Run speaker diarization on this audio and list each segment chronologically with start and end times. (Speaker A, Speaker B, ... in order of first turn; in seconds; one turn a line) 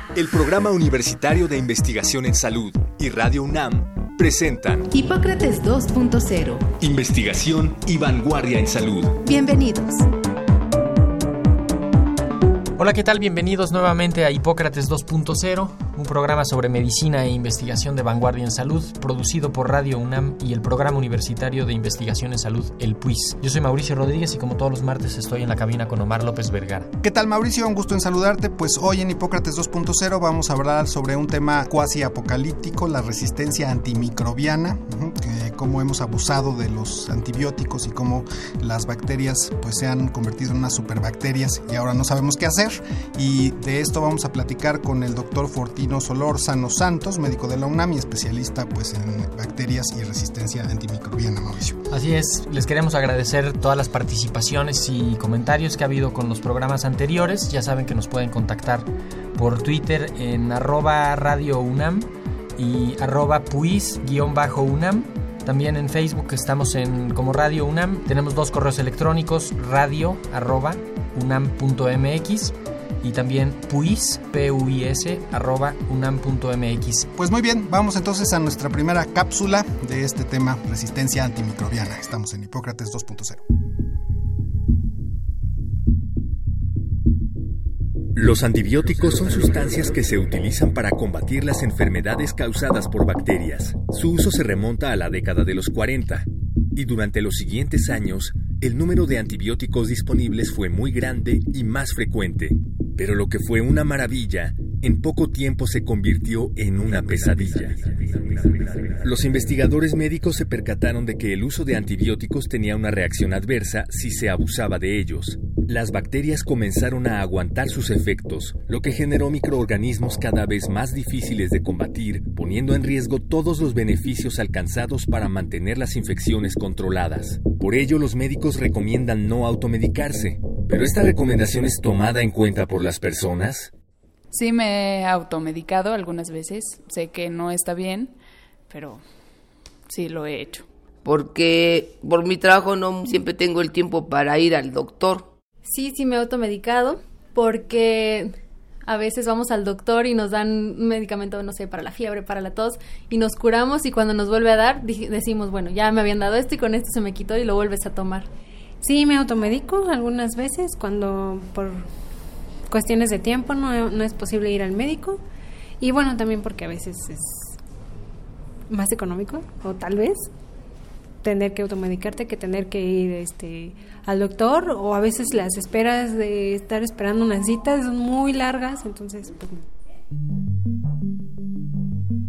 Speaker A: 0.1-4.9
Speaker B: 4.9-6.7
Speaker A: 6.8-9.2
Speaker B: 9.2-10.0
Speaker C: 12.8-26.9
Speaker D: 27.0-51.8
Speaker C: 51.9-77.1
Speaker D: 77.2-83.4
Speaker A: 88.1-133.7
Speaker E: 134.3-138.1
Speaker E: 138.7-139.0
Speaker E: 139.9-140.7
Speaker B: 141.1-145.2
Speaker F: 145.6-148.3
Speaker F: 148.8-158.3
Speaker G: 158.8-161.8
Speaker G: 162.7-165.2
Speaker G: 165.8-167.5
Speaker G: 168.7-170.3
Speaker G: 171.2-179.6